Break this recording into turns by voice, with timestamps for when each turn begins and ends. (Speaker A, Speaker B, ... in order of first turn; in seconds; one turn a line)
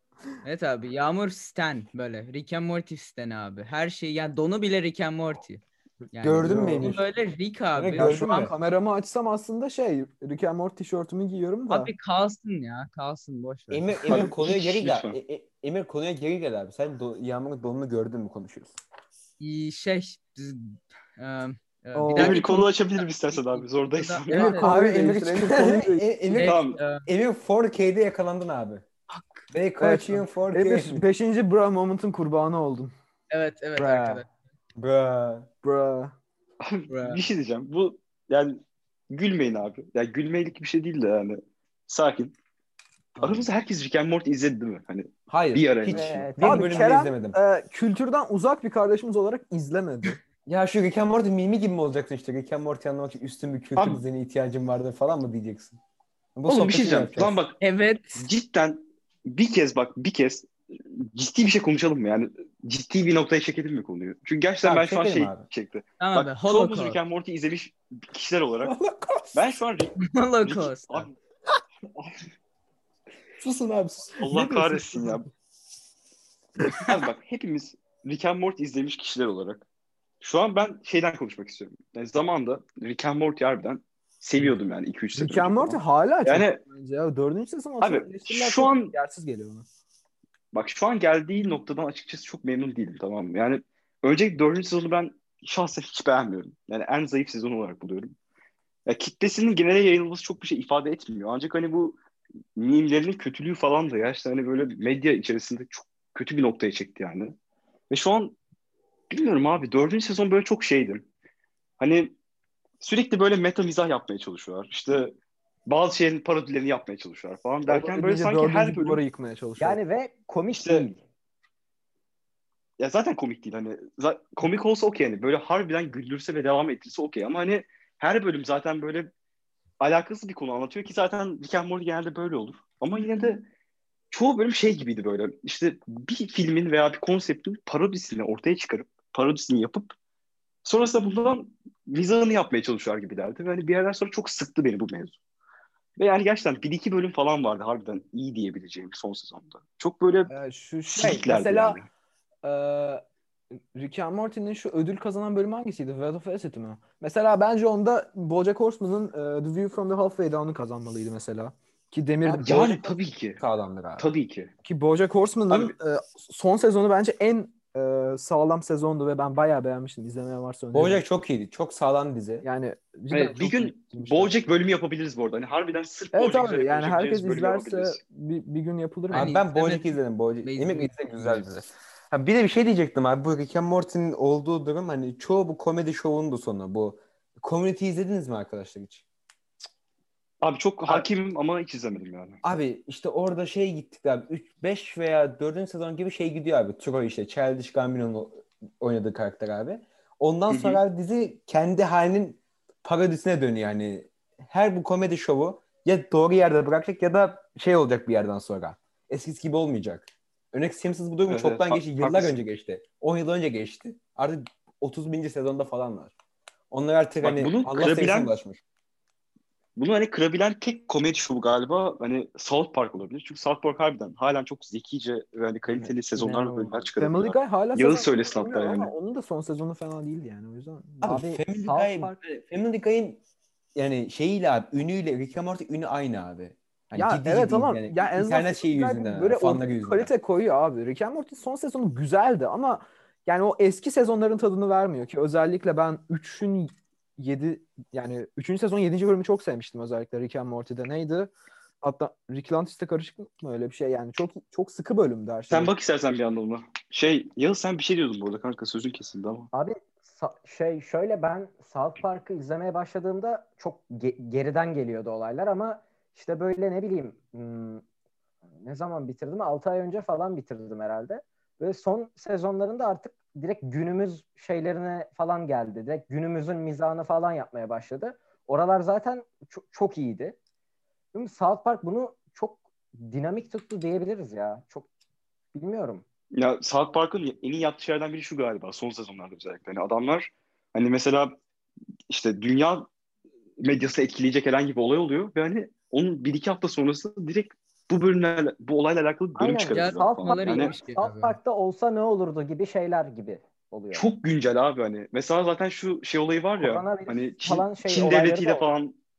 Speaker A: 0.4-8.5
Speaker B: 6.2-7.0
Speaker C: 6.5-7.0
Speaker B: 7.8-8.5
Speaker C: 7.9-11.9
Speaker A: 11.7-14.0
Speaker B: 13.7-18.7
Speaker D: 14.1-15.2
Speaker A: 19.4-24.7
Speaker C: 21.9-22.7
Speaker D: 22.1-24.6
Speaker C: 24.3-26.1
Speaker B: 24.5-28.9
Speaker A: 26.3-27.1
Speaker D: 26.4-26.8
Speaker A: 29.1-29.4
Speaker B: 29.5-31.1
Speaker C: 29.8-32.9
Speaker A: 33.3-34.3
Speaker B: 33.8-34.2
Speaker B: 34.8-35.5
Speaker C: 35.6-36.1
Speaker D: 36.6-42.4
Speaker A: 36.9-37.2
Speaker B: 43.2-43.5
Speaker D: 43.2-46.2
Speaker B: 45.3-47.4
Speaker E: 45.9-46.8
Speaker C: 46.4-50.2
Speaker B: 50.5-55.8
Speaker D: 53.8-54.0
Speaker B: 56.4-57.4
Speaker D: 56.5-57.6
Speaker A: 57.6-58.2
Speaker D: 58.1-68.7
Speaker B: 64.6-65.5
Speaker A: 66.0-67.0
Speaker B: 68.6-69.6
Speaker D: 69.3-71.2
Speaker A: 70.0-71.1
Speaker B: 73.4-74.1
Speaker C: 73.6-75.2
Speaker D: 74.2-75.3
Speaker D: 76.8-79.7
Speaker D: 80.2-86.6
Speaker C: 85.2-89.7
Speaker D: 87.8-89.0
Speaker D: 90.5-98.2
Speaker D: 98.9-102.0
Speaker D: 102.6-107.4
Speaker D: 107.9-108.4
Speaker D: 109.1-111.1
Speaker D: 111.8-112.2
Speaker D: 112.8-119.0
Speaker C: 117.7-119.8
Speaker E: 119.6-121.0
Speaker D: 120.5-120.9
Speaker D: 122.8-129.1
Speaker D: 129.8-133.5
Speaker D: 134.1-139.9
Speaker D: 140.6-145.2
Speaker D: 146.0-150.3
Speaker C: 150.3-151.8
Speaker D: 150.9-151.9
Speaker C: 152.4-153.0
Speaker C: 153.8-162.9
Speaker D: 162.2-163.4
Speaker B: 163.4-164.1
Speaker D: 164.0-164.5
Speaker C: 164.6-171.0
Speaker B: 170.7-172.4
Speaker C: 172.4-174.4
Speaker D: 173.1-178.0
Speaker C: 176.1-179.3
Speaker A: 179.1-181.5
Speaker B: 179.1-189.0
Speaker D: 190.4-192.4
Speaker B: 192.4-216.1
Speaker D: 200.5-200.8
Speaker D: 211.3-212.3
Speaker B: 216.7-218.6
Speaker D: 217.2-218.4
Speaker D: 219.8-228.9
Speaker E: 226.2-226.7
Speaker C: 227.0-231.2
Speaker B: 231.0-233.2
Speaker E: 231.0-232.2
Speaker B: 233.8-240.1
Speaker C: 236.9-255.7
Speaker D: 255.5-259.5
Speaker E: 259.5-267.8
Speaker E: 268.6-280.4
Speaker E: 281.1-284.9
Speaker E: 285.5-286.0
Speaker D: 286.3-291.4
Speaker D: 292.1-292.9
Speaker D: 293.6-300.8
Speaker E: 299.4-304.1
Speaker A: 299.7-301.4
Speaker D: 303.9-309.0
Speaker E: 306.6-308.7